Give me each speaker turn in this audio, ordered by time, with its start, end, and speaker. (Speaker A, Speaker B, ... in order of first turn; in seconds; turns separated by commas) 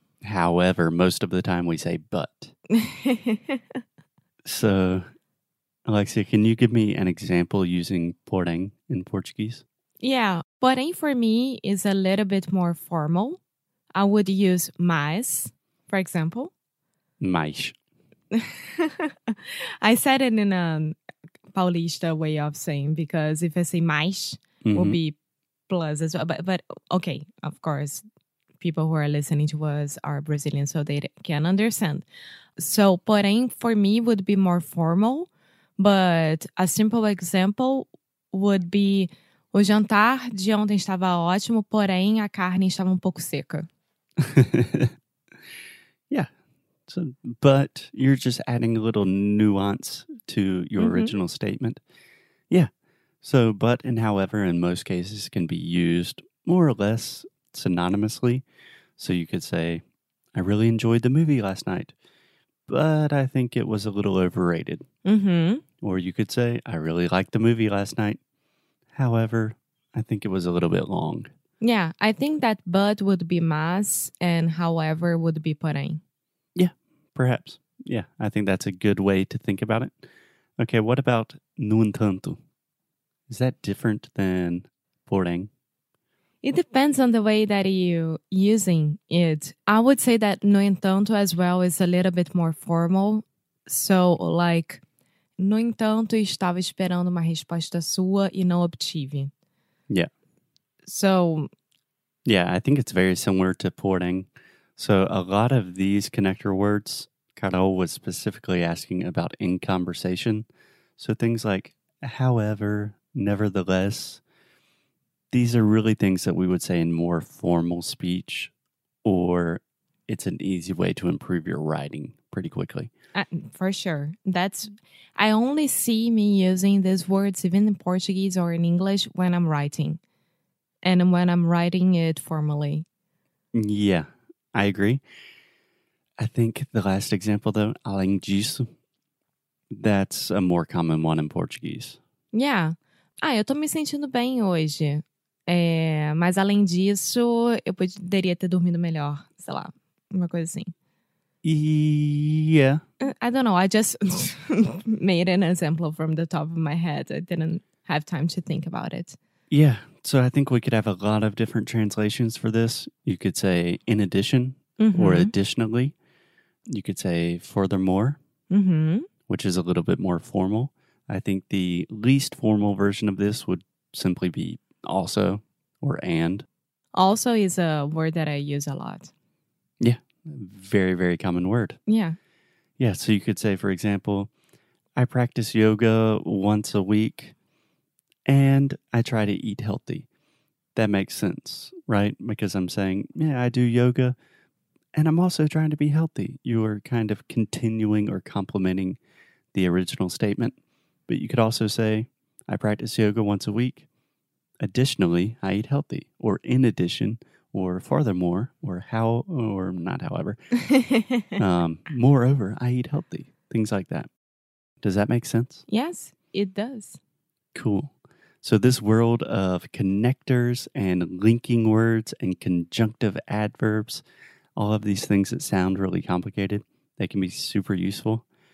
Speaker A: 0.2-2.5, Speaker B: 2.7-3.8, Speaker A: 4.4-5.0, Speaker A: 5.9-9.6, Speaker B: 10.0-13.4, Speaker B: 13.9-16.5, Speaker A: 17.2-17.8, Speaker B: 18.3-21.0, Speaker B: 21.5-25.2, Speaker A: 24.6-25.0, Speaker B: 25.7-28.0, Speaker B: 28.6-32.1, Speaker B: 32.6-43.7, Speaker A: 44.2-44.9, Speaker A: 46.9-51.8, Speaker B: 50.8-51.1, Speaker A: 53.2-58.4, Speaker A: 59.0-59.8, Speaker A: 60.3-61.9, Speaker A: 62.7-64.8, Speaker B: 65.0-65.6, Speaker A: 65.8-68.2, Speaker A: 68.9-71.3, Speaker B: 71.6-76.0, Speaker A: 76.5-80.1, Speaker A: 80.6-82.4, Speaker A: 83.3-85.5, Speaker B: 86.4-94.8, Speaker B: 95.4-99.3, Speaker B: 100.8-101.5, Speaker A: 102.3-110.5, Speaker A: 111.0-114.2, Speaker A: 115.3-118.5, Speaker A: 119.0-122.9, Speaker B: 123.2-130.0, Speaker B: 130.8-132.8, Speaker A: 133.5-135.0, Speaker A: 136.2-138.7, Speaker A: 139.7-142.0, Speaker B: 142.3-150.7, Speaker A: 151.4-152.8, Speaker B: 153.0-159.2, Speaker A: 159.5-165.9, Speaker B: 164.8-165.3, Speaker A: 166.7-168.2, Speaker B: 168.5-169.1, Speaker A: 169.3-176.4, Speaker B: 176.9-179.1, Speaker A: 179.8-181.8, Speaker B: 181.9-182.2, Speaker A: 182.8-184.3, Speaker A: 185.0-187.3, Speaker A: 188.3-190.1, Speaker A: 190.7-194.2, Speaker A: 194.9-199.0, Speaker A: 199.5-200.6, Speaker A: 201.1-203.9, Speaker A: 204.6-210.4, Speaker B: 210.7-211.2, Speaker A: 211.4-214.1, Speaker A: 214.8-215.6, Speaker B: 215.7-217.0, Speaker A: 217.5-224.0, Speaker A: 224.6-228.3